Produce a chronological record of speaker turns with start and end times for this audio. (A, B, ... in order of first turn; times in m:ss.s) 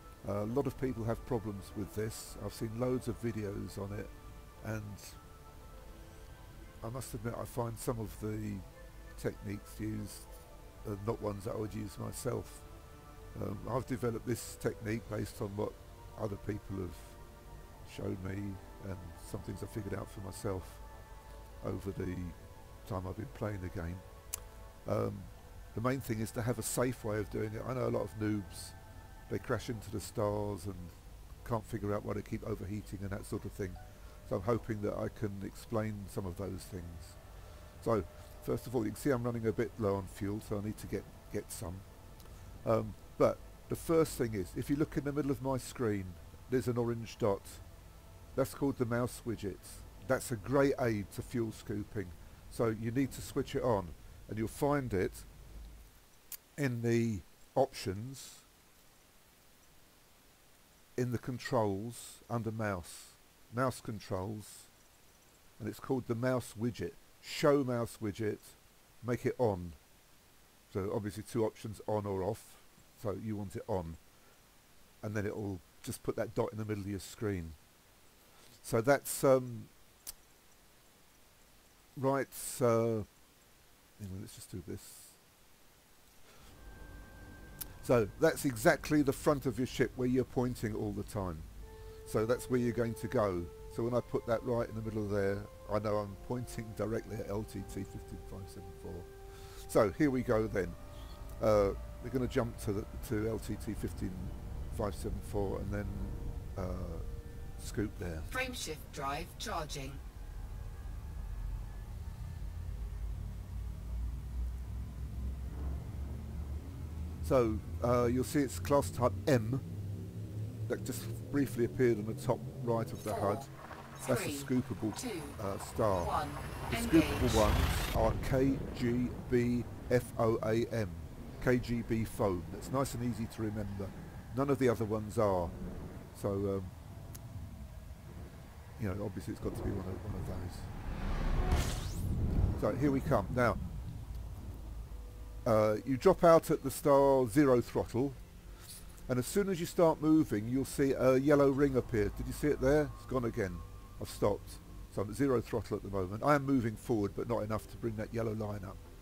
0:00.2-0:05.2 A
0:06.8-0:12.7 A
0:13.3-0:17.2 A
0:17.8-0:20.8 A
0:21.6-0:24.0 A
0:24.8-0:37.2 A
0:37.8-0:41.8 A
0:42.6-0:47.6 A
0:48.3-0:55.3 A
0:56.6-0:58.4 A
1:01.0-1:04.7 A
1:05.6-1:09.8 A
1:10.7-1:14.0 A
1:15.0-1:17.6 A
1:18.6-1:19.7 A
1:22.0-1:23.1 A
1:24.0-1:25.2 A
1:27.8-1:31.5 A
1:32.0-1:40.8 A
1:41.4-1:47.0 A
1:47.6-1:48.3 A
1:48.3-1:50.0 B
1:57.2-1:59.6 A
2:00.7-2:03.5 A
2:03.0-2:03.4 B
2:04.0-2:05.4 B
2:04.0-2:06.2 A
2:06.0-2:07.5 B
2:06.7-2:15.5 A
2:16.1-2:16.8 A
2:18.8-2:20.7 A
2:22.6-2:23.6 A
2:25.4-2:28.2 A
2:29.1-2:38.8 A